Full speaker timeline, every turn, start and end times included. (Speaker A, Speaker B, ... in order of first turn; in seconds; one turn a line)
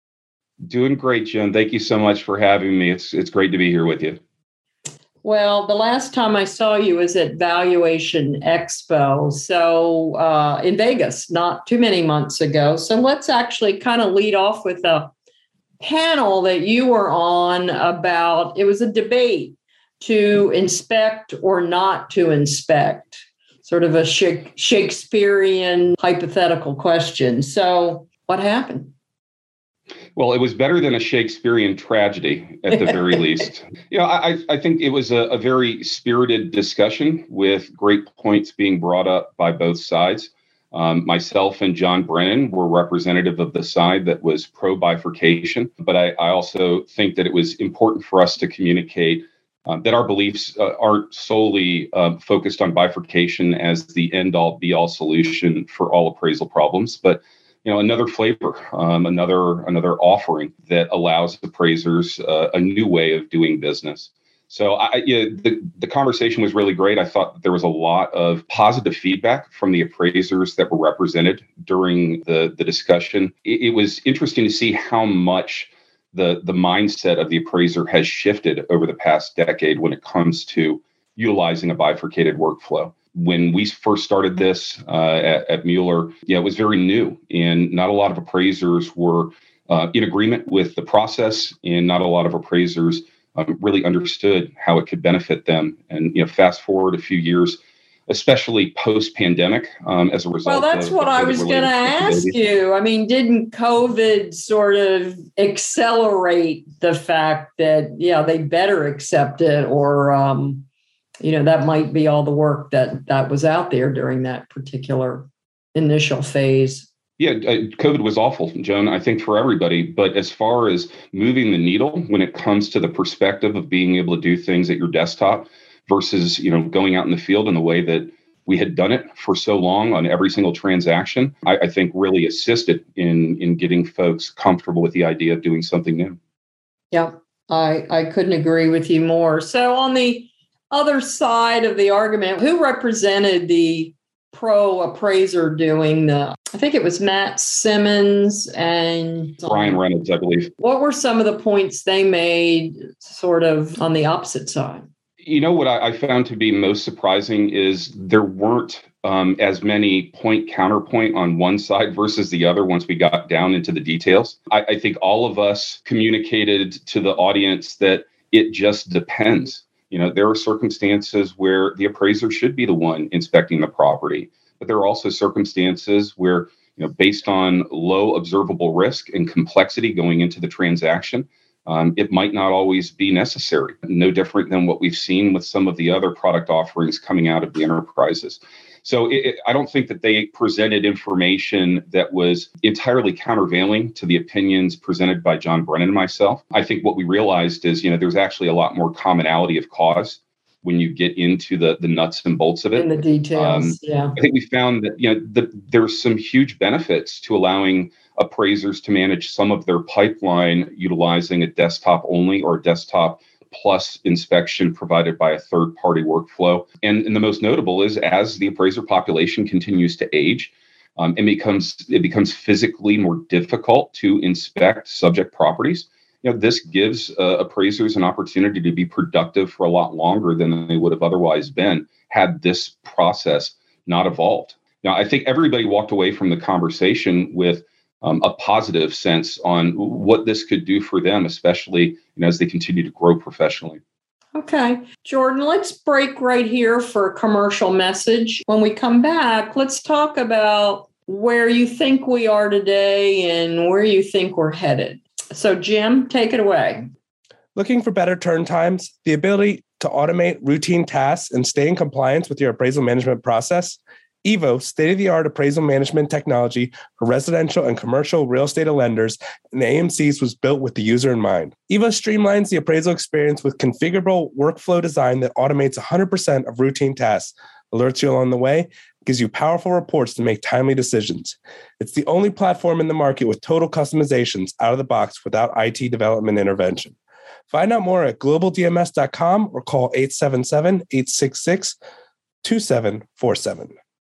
Speaker A: 0.6-4.2
Speaker B: 5.2-15.1
Speaker B: 15.8-28.9
Speaker A: 30.2-102.4
Speaker B: 100.5-110.7
Speaker B: 111.2-116.9
Speaker A: 117.2-136.2
Speaker B: 136.9-149.8
Speaker A: 149.5-150.5
Speaker B: 150.6-154.9
Speaker A: 155.2-243.8
Speaker B: 202.7-204.2
Speaker B: 244.3-256.9
Speaker C: 257.6-287.0
Speaker C: 287.5-291.8
Speaker C: 292.4-293.7